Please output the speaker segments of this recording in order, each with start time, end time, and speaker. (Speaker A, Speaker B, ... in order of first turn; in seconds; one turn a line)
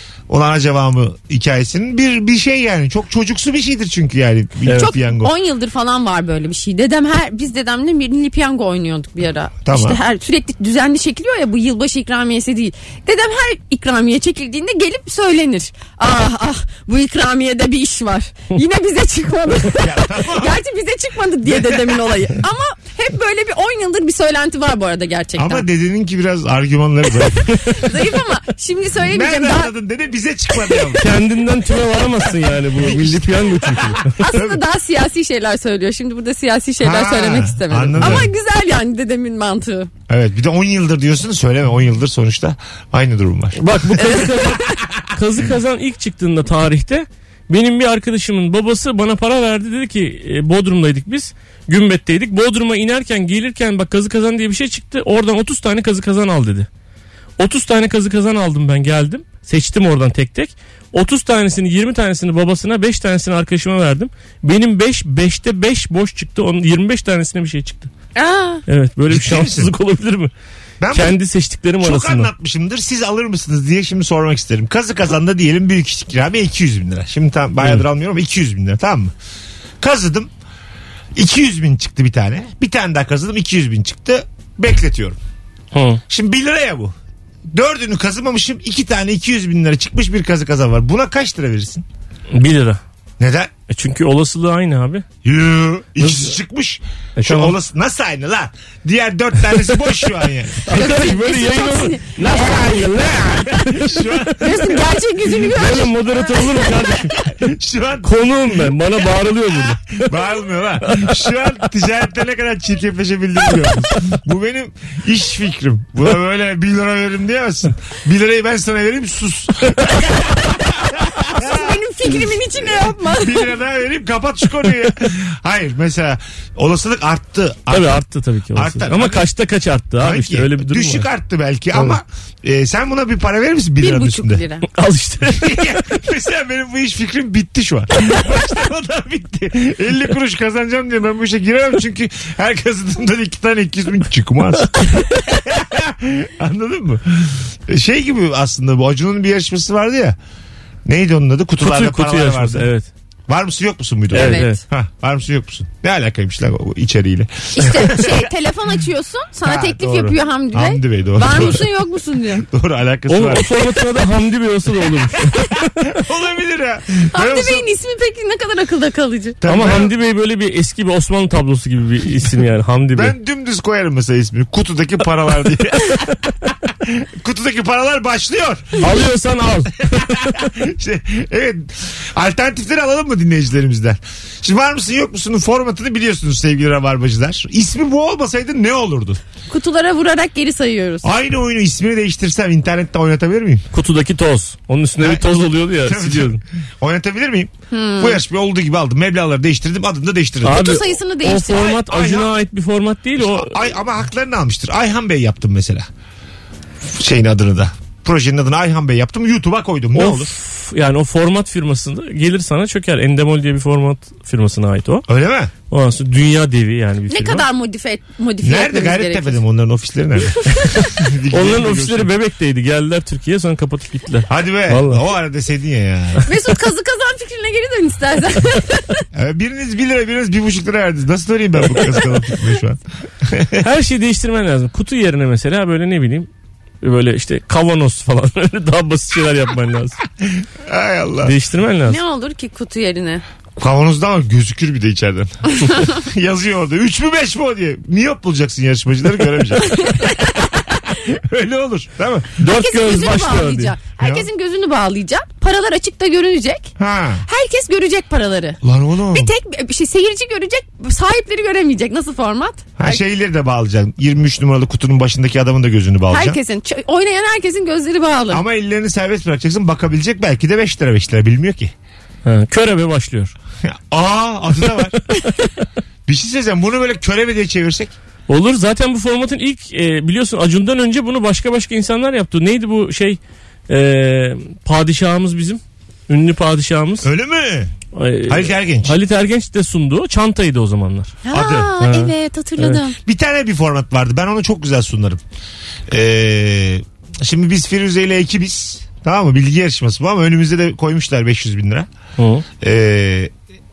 Speaker A: 0.3-5.3
Speaker B: 4.7-4.9
Speaker C: 4.8-25.7
Speaker A: 9.7-10.0
Speaker A: 19.8-20.6
Speaker A: 25.4-27.7
Speaker C: 27.6-29.7
Speaker A: 29.1-31.1
Speaker C: 30.6-30.8
Speaker B: 31.0-34.2
Speaker A: 32.7-34.6
Speaker C: 34.2-39.9
Speaker A: 36.8-38.3
Speaker A: 40.1-44.1
Speaker B: 43.6-56.7
Speaker C: 44.0-44.8
Speaker B: 57.4-67.9
Speaker C: 68.2-68.6
Speaker B: 68.7-70.3
Speaker A: 69.1-69.7
Speaker A: 70.8-71.2
Speaker B: 70.9-72.3
Speaker A: 71.8-79.1
Speaker A: 79.8-80.3
Speaker A: 81.2-85.2
Speaker B: 85.7-86.0
Speaker A: 86.1-87.0
Speaker A: 87.5-91.8
Speaker B: 92.3-92.8
Speaker A: 93.2-93.5
Speaker B: 93.7-95.0
Speaker A: 95.2-100.7
Speaker B: 96.0-96.4
Speaker B: 97.2-97.6
Speaker B: 100.7-104.4
Speaker C: 100.7-102.7
Speaker A: 102.2-104.9
Speaker C: 104.4-107.1
Speaker B: 105.5-107.3
Speaker A: 107.3-109.0
Speaker B: 108.0-110.1
Speaker A: 109.6-128.0
Speaker B: 110.9-111.2
Speaker C: 121.2-123.5
Speaker B: 127.7-131.1
Speaker A: 128.5-129.3
Speaker A: 130.0-134.4
Speaker C: 133.8-134.7
Speaker B: 134.7-135.8
Speaker A: 135.3-150.2
Speaker A: 150.9-152.7
Speaker B: 151.6-152.9
Speaker A: 153.3-158.3
Speaker B: 154.1-154.6
Speaker C: 154.1-154.6
Speaker C: 157.5-162.4
Speaker A: 159.4-161.6
Speaker A: 162.4-163.5
Speaker B: 163.1-165.7
Speaker A: 165.9-167.7
Speaker C: 167.1-169.4
Speaker A: 169.4-169.9
Speaker B: 169.5-173.2
Speaker A: 172.9-178.8
Speaker B: 178.8-180.4
Speaker A: 180.0-189.2
Speaker C: 189.5-191.1
Speaker A: 191.0-193.7
Speaker B: 193.7-196.4
Speaker A: 195.0-200.8
Speaker C: 197.7-198.2
Speaker B: 200.4-203.6
Speaker C: 200.5-201.8
Speaker A: 201.8-202.3
Speaker A: 203.2-205.9
Speaker A: 206.8-210.3
Speaker B: 209.9-215.1
Speaker A: 215.1-215.5
Speaker B: 215.7-217.5
Speaker C: 217.1-219.4
Speaker A: 218.4-222.1
Speaker B: 220.9-225.0
Speaker A: 224.3-226.3
Speaker C: 226.3-229.0
Speaker A: 229.1-233.6
Speaker B: 233.6-236.3
Speaker B: 236.8-240.0
Speaker A: 240.2-241.3
Speaker B: 241.2-242.0
Speaker C: 241.9-243.2
Speaker A: 243.6-252.4
Speaker C: 249.6-250.5
Speaker B: 252.4-253.8
Speaker C: 252.4-256.7
Speaker A: 254.0-254.3
Speaker A: 256.8-257.3
Speaker C: 257.3-258.6
Speaker A: 258.6-259.3
Speaker C: 259.1-263.0
Speaker A: 262.8-266.4
Speaker C: 266.1-268.4
Speaker A: 268.3-271.7
Speaker B: 272.2-273.3
Speaker A: 273.6-275.0
Speaker A: 276.1-277.9
Speaker B: 278.3-287.1
Speaker A: 287.0-287.7
Speaker B: 287.9-291.2
Speaker A: 288.3-289.0
Speaker C: 291.2-293.0
Speaker A: 291.3-291.8
Speaker B: 291.8-292.8
Speaker A: 293.1-295.2
Speaker A: 295.9-301.9
Speaker B: 302.2-302.4
Speaker A: 302.6-303.3